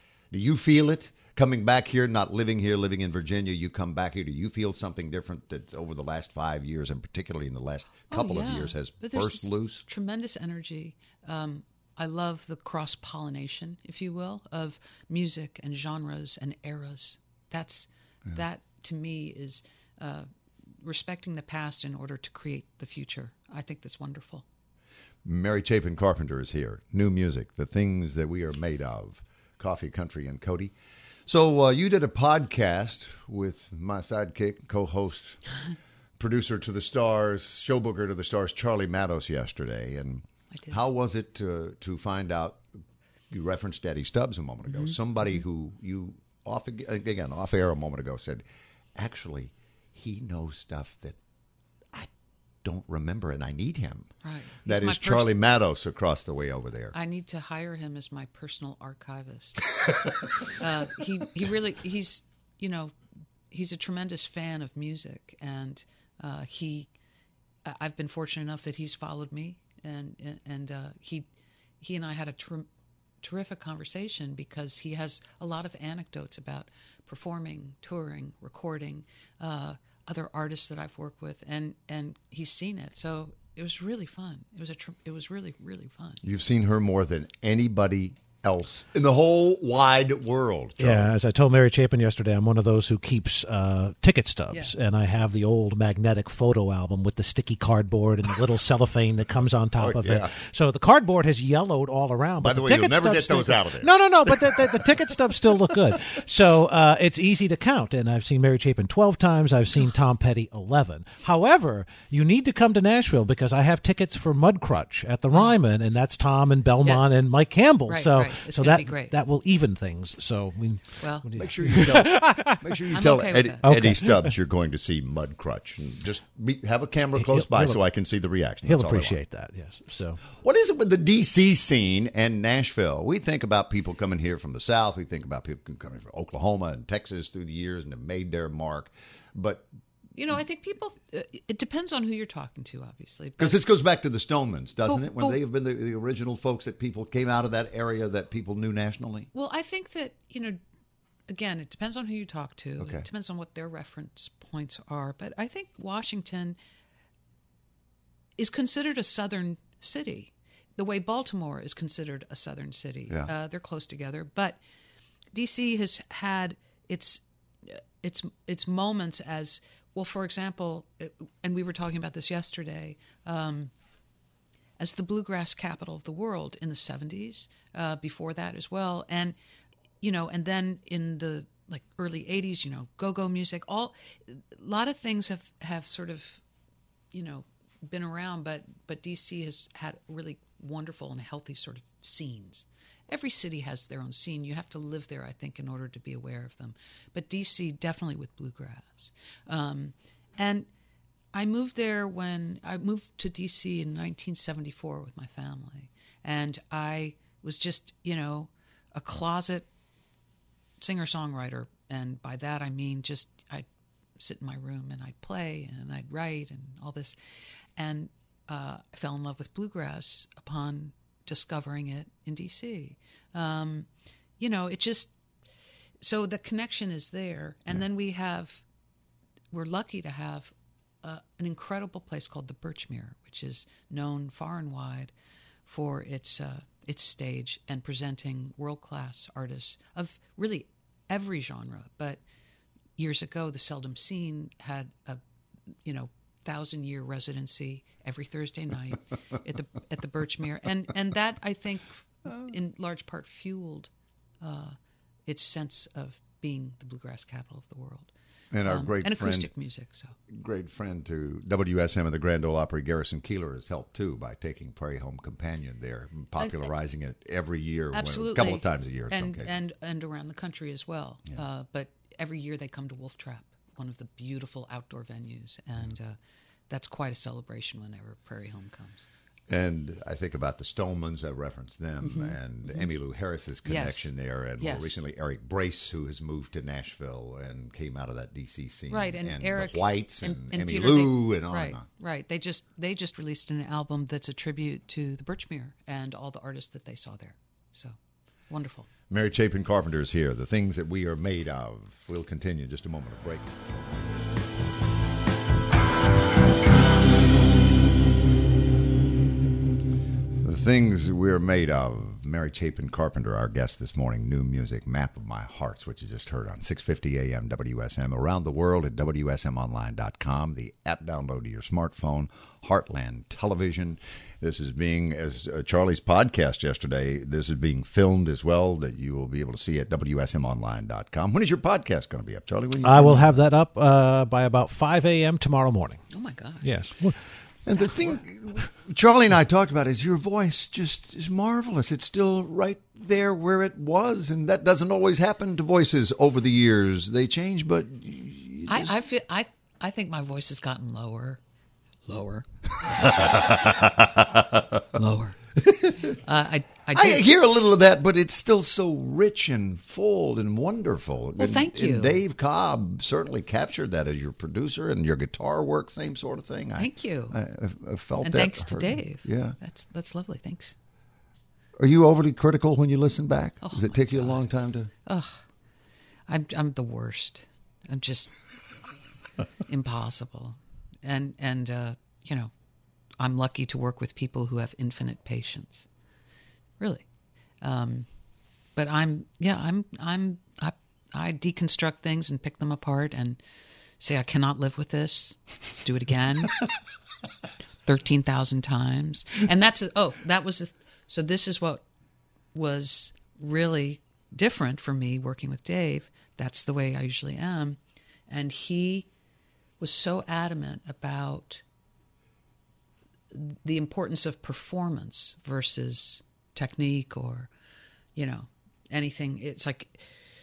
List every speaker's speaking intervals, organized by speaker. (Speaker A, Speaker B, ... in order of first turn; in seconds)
Speaker A: 0.3-9.8, 25.2-30.8, 31.3-35.4, 36.2-42.6, 43.3-48.4, 49.0-51.2, 52.6-54.1, 54.6-57.0, 86.2-91.1, 99.8-100.3, 102.4-104.9, 121.4-129.2, 130.3-139.7, 143.4-149.3, 152.8-153.1, 258.5-259.5, 260.3-269.5, 279.5-291.9, 299.1-304.2, 310.4-333.4, 337.6-348.9, 353.0-354.8, 356.9-369.6, 371.8-374.9
Speaker B: 8.1-20.3, 20.8-24.4, 44.7-45.0, 54.2-55.3, 56.9-59.7, 60.6-62.9, 63.5-66.9, 67.7-71.3, 71.8-72.7, 73.2-86.2, 115.3-115.6, 117.9-119.1, 121.0-121.3, 122.9-123.7, 140.2-143.6, 144.9-145.4, 149.3-150.6, 151.3-156.6, 158.4-164.6, 165.3-173.7, 174.8-179.3, 180.0-186.4, 187.1-200.7, 201.3-209.7, 210.8-213.7, 214.2-217.2, 217.8-223.9, 224.4-225.1, 226.0-228.7, 229.5-235.1, 235.7-242.2, 243.0-245.2, 245.8-253.9, 254.4-258.1, 258.6-260.2, 267.9-276.2, 276.7-279.1, 282.0-282.9, 283.6-285.0, 288.9-298.0, 298.5-298.9, 336.1-336.7, 348.7-351.4, 352.1-353.4, 354.9-357.3, 361.4-362.2, 366.8-367.4, 368.2-370.8, 373.6-374.5, 375.1-375.4, 376.3-378.4, 379.7-382.5, 383.2-385.9, 386.8-387.1, 387.6-388.1, 388.8-393.4, 394.0-396.6, 397.9-401.8, 402.5-409.1, 409.8-411.6, 413.3-417.5, 418.1-420.0
Speaker C: 90.8-122.8, 123.6-124.3, 127.2-127.8, 128.7-130.2, 332.8-336.1, 336.6-337.2